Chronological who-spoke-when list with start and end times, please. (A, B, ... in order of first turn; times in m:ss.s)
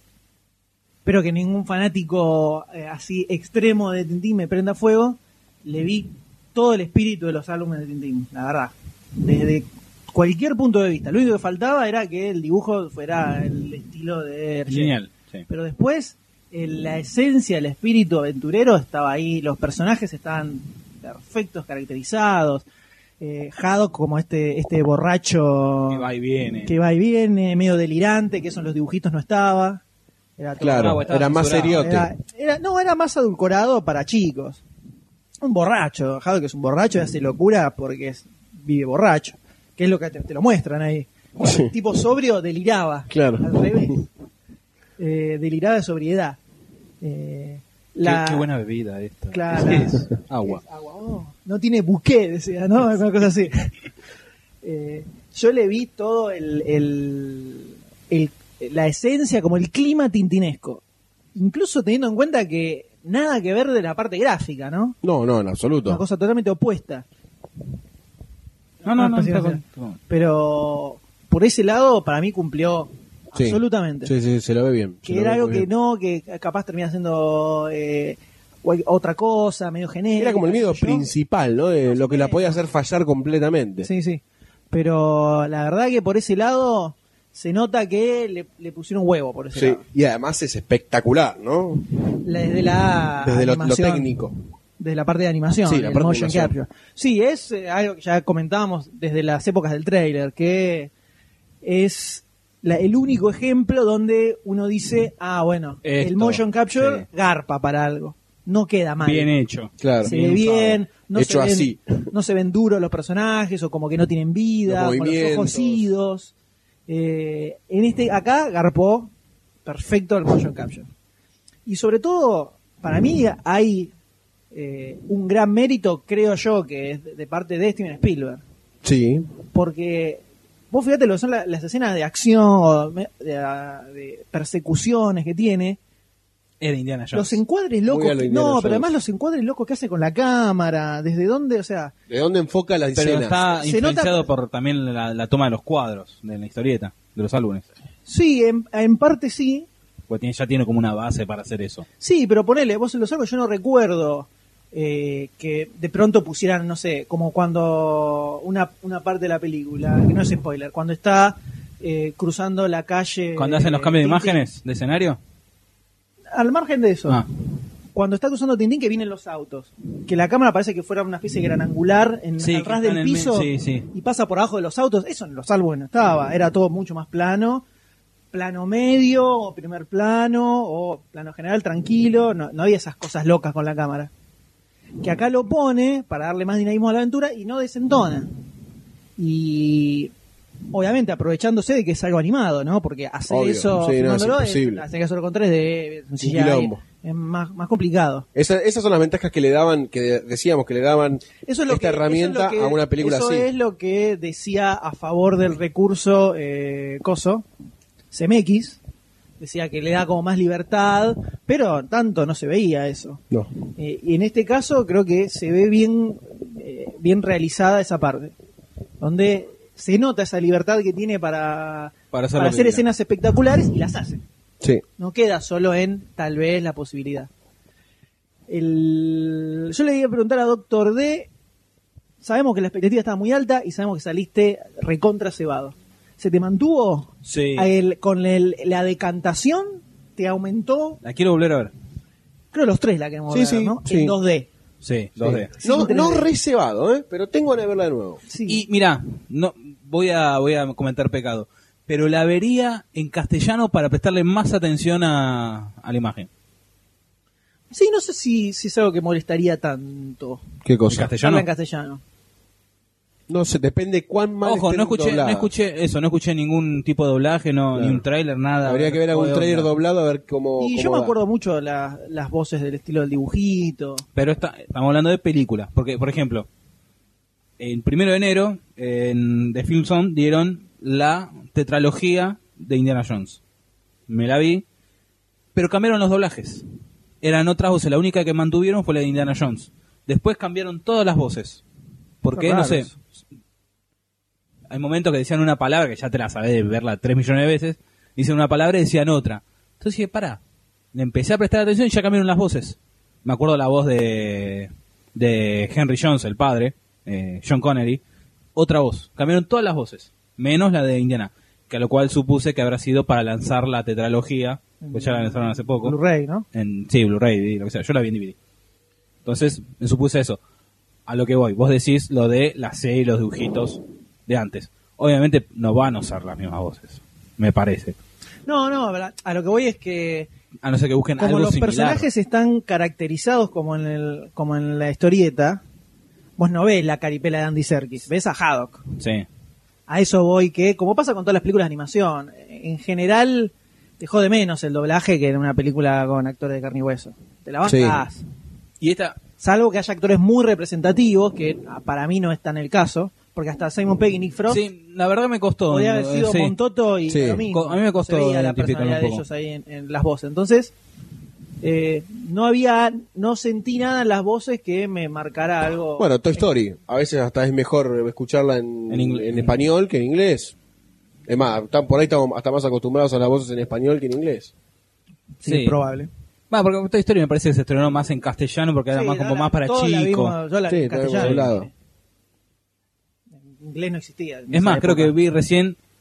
0:01.0-0:15.0 A
0:14.7-0:15.5 B
0:15.5-0:22.7 A
0:23.2-0:26.0 A
0:25.9-0:26.7 B
0:26.6-0:29.8 A
0:30.4-0:34.6 A
0:30.6-0:32.1 C
0:30.6-0:32.0 B
0:35.4-0:44.0 A
0:41.4-0:41.7 C
0:43.1-0:43.9 C
0:45.0-0:46.4 A
0:47.0-0:48.5 A
0:48.0-0:50.6 B
0:49.3-0:53.7 A
0:54.6-1:00.8 A
1:01.4-1:05.0 A
1:05.0-1:06.0 C
1:05.9-1:07.0 A
1:08.8-1:14.1 A
1:08.8-1:10.0 B
1:13.3-1:15.7 C
1:15.0-1:21.1 A
1:20.2-1:23.9 C
1:21.9-1:22.6 A
1:23.8-1:29.8 A
1:29.6-1:31.9 C
1:32.2-1:34.1 A
1:33.2-1:34.3 C
1:34.8-1:40.9 A
1:35.6-1:36.6 C
1:41.6-1:49.3 A
1:45.8-1:47.1 B
1:49.0-1:50.8 B
1:49.8-1:50.1 C
1:50.0-1:56.3 A
1:51.1-1:52.1 C
1:54.7-1:55.9 C
1:56.9-1:59.1 A
1:59.6-2:00.9 A
2:01.7-2:03.9 A
2:04.5-2:08.4 A
2:08.8-2:09.3 C
2:09.5-2:15.8 A
2:16.6-2:17.4 B
2:17.1-2:21.9 A
2:17.9-2:18.9 C
2:22.1-2:23.4 C
2:23.0-2:27.6 B
2:23.6-2:24.3 A
2:28.1-2:29.7 A
2:30.1-2:31.8 B
2:32.0-2:44.4 A
2:43.4-2:45.2 B
2:46.3-2:47.2 A
2:47.9-2:57.6 A
2:52.4-2:53.9 B
2:58.3-3:04.1 A
3:05.0-3:08.3 A
3:09.2-3:10.1 A
3:10.7-3:18.3 A
3:13.3-3:14.8 C
3:16.2-3:16.8 C
3:18.4-3:23.5 C
3:21.4-3:27.5 A
3:28.1-3:28.8 A
3:29.4-3:33.2 A
3:33.8-3:38.3 A
3:39.0-3:44.2 A
3:42.1-3:42.8 B
3:45.0-3:47.3 A
3:48.5-3:51.3 A
3:52.2-4:01.0 A
3:57.3-3:57.7 B
4:01.0-4:01.7 B
4:02.5-4:04.5 A
4:03.3-4:04.2 C
4:04.8-4:05.5 B
4:05.2-4:08.2 C
4:05.6-4:06.3 A
4:08.3-4:08.6 A
4:08.5-4:16.3 B
4:17.7-4:20.4 A
4:20.6-4:21.1 C
4:20.9-4:21.4 B
4:21.2-4:22.0 A
4:23.3-4:25.5 C
4:24.4-4:29.7 B
4:27.7-4:28.0 C
4:28.6-4:31.2 C
4:30.6-4:34.1 A
4:34.2-4:36.5 B
4:37.6-4:43.4 B
4:44.1-4:44.6 B
4:45.6-4:46.6 B
4:47.2-4:51.6 B
4:52.2-4:53.0 B
4:52.3-4:53.0 A
4:54.7-5:00.4 B
5:00.9-5:08.0 B
5:08.6-5:16.0 B
5:14.8-5:16.5 A
5:16.5-5:18.4 B
5:19.2-5:20.4 B
5:21.1-5:28.0 B
5:28.5-5:30.3 A
5:30.6-5:32.1 B
5:31.2-5:35.6 A
5:36.4-5:38.8 A
5:39.0-5:39.3 B
5:39.9-5:48.2 A
5:47.6-5:48.0 C
5:48.8-5:49.2 B
5:49.4-5:54.6 A
5:54.5-5:56.6 B
5:55.7-6:00.7 A
5:57.1-5:57.4 C
5:57.5-5:59.2 B
6:01.6-6:06.1 A
6:06.0-6:10.6 C
6:08.9-6:09.5 B
6:11.3-6:14.5 C
6:15.4-6:16.1 A
6:15.4-6:15.8 B
6:16.5-6:20.4 B
6:18.9-6:21.7 A
6:20.7-6:21.7 C
6:21.2-6:21.5 B
6:23.5-6:25.1 A
6:24.5-6:25.8 B